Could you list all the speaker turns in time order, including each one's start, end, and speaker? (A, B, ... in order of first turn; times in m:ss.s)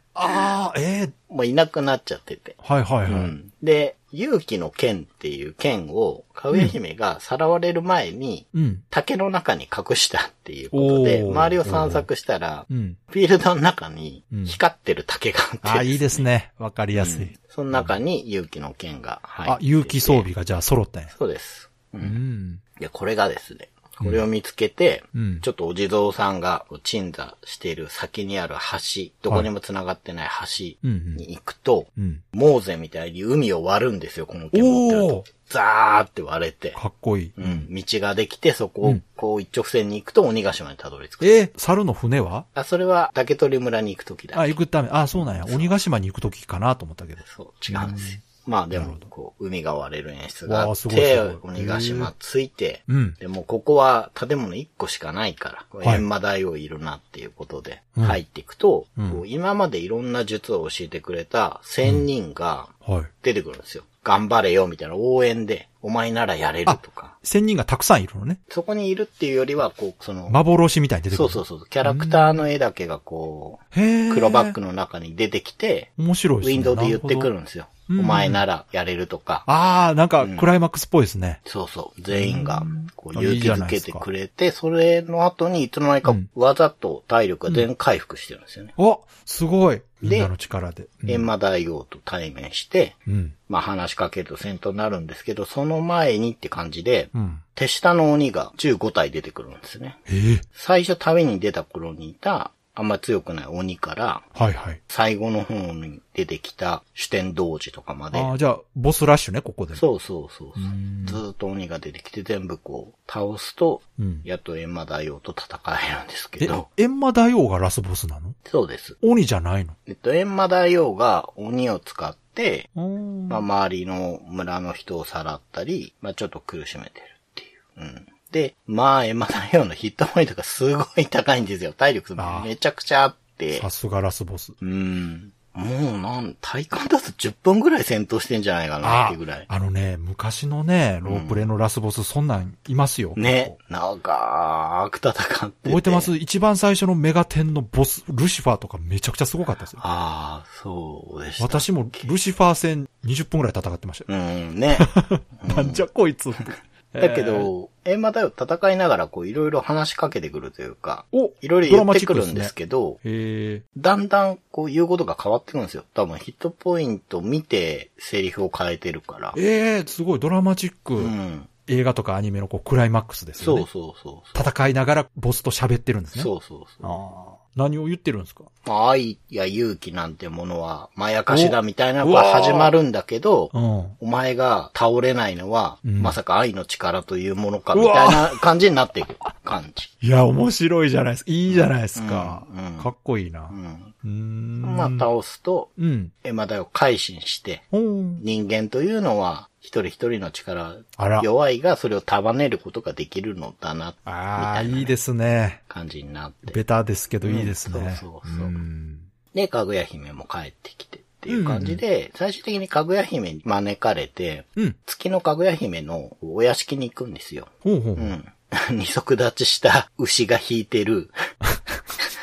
0:00.1-0:01.1 A
0:01.3-0:16.3 B
0:02.6-0:03.3 A
0:08.5-0:08.8 A
0:10.7-0:12.0 A
0:12.7-0:13.0 A
0:14.3-0:14.6 A
0:15.6-0:17.9 A
0:16.9-0:20.3 B
0:19.4-0:21.1 A
0:21.1-0:22.2 B
0:22.0-0:22.6 A
0:22.8-0:36.8 B
0:25.1-0:25.4 A
0:30.8-0:31.2 A
0:32.0-0:32.2 A
0:34.5-0:35.2 A
0:36.8-0:37.7 A
0:37.4-0:41.3 B
0:41.2-0:42.5 A
0:42.5-0:44.6 B
0:44.3-0:48.2 A
0:45.1-0:45.7 B
0:47.2-1:07.2 B
0:48.7-0:49.1 A
0:50.5-0:52.1 A
0:52.9-0:53.2 A
0:59.0-0:59.2 A
1:02.8-1:03.1 A
1:06.6-1:08.4 A
1:08.5-1:10.4 B
1:10.3-1:12.4 A
1:11.1-1:15.9 B
1:13.7-1:14.6 A
1:16.0-1:17.3 A
1:16.4-1:19.5 B
1:17.9-1:18.4 A
1:19.4-1:21.4 A
1:20.2-1:20.4 B
1:21.4-1:28.7 B
1:22.1-1:24.1 A
1:28.8-1:31.3 A
1:30.0-1:30.3 B
1:31.0-1:33.0 B
1:33.0-1:33.3 A
1:33.5-1:40.0 B
1:37.1-1:37.4 A
1:40.1-1:40.4 A
1:40.5-1:44.3 B
1:44.3-1:44.8 A
1:44.9-1:48.3 B
1:48.1-1:49.8 A
1:49.7-1:56.7 B
1:50.6-1:51.2 A
1:54.0-1:54.2 A
1:56.4-1:58.4 A
1:58.4-1:59.0 B
1:59.0-1:59.8 A
1:59.8-2:02.7 B
2:02.8-2:03.4 A
2:03.3-2:13.7 B
2:12.2-2:12.5 A
2:13.6-2:14.6 A
2:14.6-2:19.5 B
2:18.8-2:23.5 A
2:21.0-2:21.5 B
2:23.2-2:26.1 B
2:25.6-2:29.8 A
2:29.8-2:32.1 B
2:31.4-2:34.1 A
2:34.1-2:35.9 B
2:34.8-2:37.5 A
2:37.0-2:43.0 B
2:41.1-2:43.6 A
2:43.7-2:49.4 B
2:49.3-2:51.1 A
2:51.0-2:51.5 B
2:51.6-2:53.7 A
2:53.4-2:54.5 B
2:54.3-2:56.3 A
2:56.1-2:57.0 B
2:56.8-2:58.5 A
2:58.6-3:09.9 B
3:01.3-3:02.7 A
3:03.5-3:04.0 A
3:05.8-3:06.2 A
3:07.7-3:08.4 A
3:10.0-3:15.0 A
3:11.5-3:12.9 B
3:13.5-3:13.9 B
3:14.6-3:15.7 B
3:15.8-3:16.1 A
3:16.2-3:17.7 B
3:17.7-3:18.2 A
3:18.2-3:24.9 B
3:21.0-3:21.3 A
3:24.0-3:25.6 A
3:25.7-3:26.6 B
3:26.5-3:29.1 A
3:27.2-3:28.6 B
3:29.3-3:41.1 B
3:31.3-3:31.8 A
3:37.6-3:38.1 A